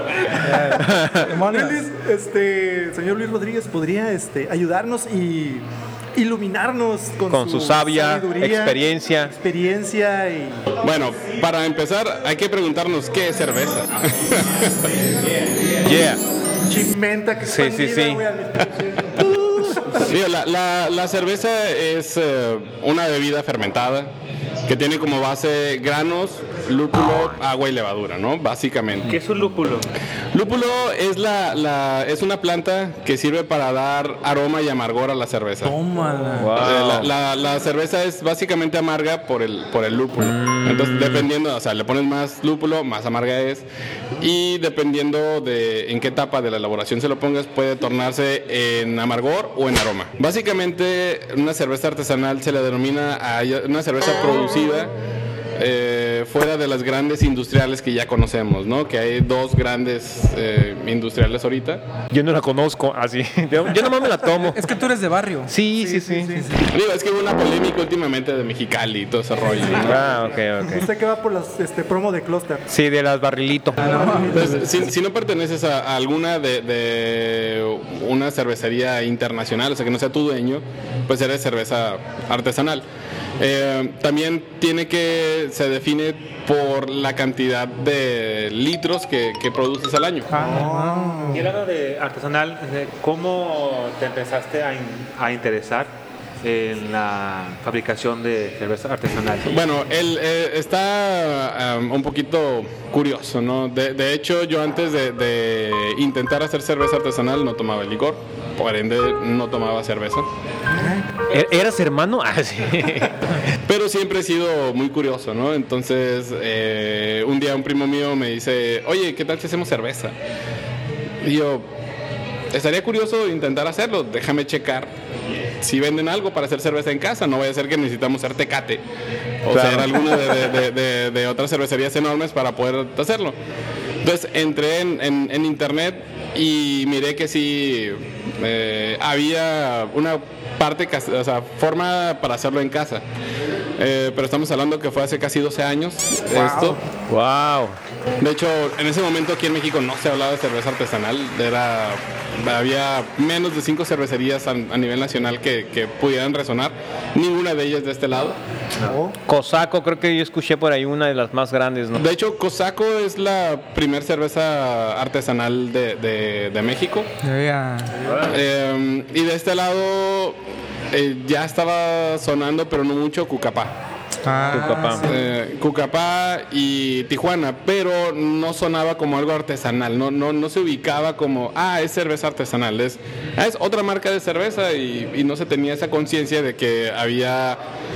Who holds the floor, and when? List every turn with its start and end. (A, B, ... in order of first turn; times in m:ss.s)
0:00.3-0:01.8 A
0:00.4-0:00.7 B
0:00.7-0:01.2 C
0:01.3-0:10.7 B
0:07.3-0:09.3 C
0:10.8-0:14.9 D
0:15.8-0:16.2 C
0:16.6-0:20.1 B
0:17.4-0:18.2 C
0:19.9-0:24.1 D
0:24.7-0:29.2 D
0:29.0-0:29.9 E
0:30.3-0:35.7 D
0:35.6-0:36.5 A
0:36.4-0:37.1 C
0:36.6-0:43.6 D
0:40.2-0:41.3 C
0:44.2-0:54.9 D
0:55.6-1:01.8 D
1:02.1-1:04.7 C
1:04.5-1:05.5 A
1:05.5-1:06.4 C
1:05.8-1:06.6 B
1:06.7-1:10.0 D
1:09.7-1:10.9 C
1:10.7-1:12.6 B
1:12.7-1:13.9 C
1:13.8-1:14.6 A
1:13.8-1:14.8 B
1:14.3-1:22.8 D
1:23.4-1:30.3 D
1:30.3-1:31.5 A
1:30.3-1:31.5 B
1:31.3-1:39.6 E
1:39.4-1:50.3 D
1:50.8-1:51.0 B
1:51.3-1:53.2 C
1:53.6-2:00.1 D
2:01.2-2:01.7 D
2:02.5-2:04.9 D
2:05.6-2:08.8 D
2:09.4-2:13.3 D
2:09.5-2:10.3 C
2:14.0-2:23.0 D
2:23.8-2:26.8 D
2:26.3-2:26.7 B
2:27.1-2:27.8 C
2:28.2-2:38.4 D
2:38.8-2:39.1 B
2:39.3-2:42.0 C
2:42.0-2:47.1 D
2:47.2-2:47.9 A
2:48.0-2:48.4 E
2:48.3-2:50.4 D
2:50.9-2:53.7 D
2:54.2-2:55.1 A
2:54.5-2:55.0 C
2:55.0-3:07.6 D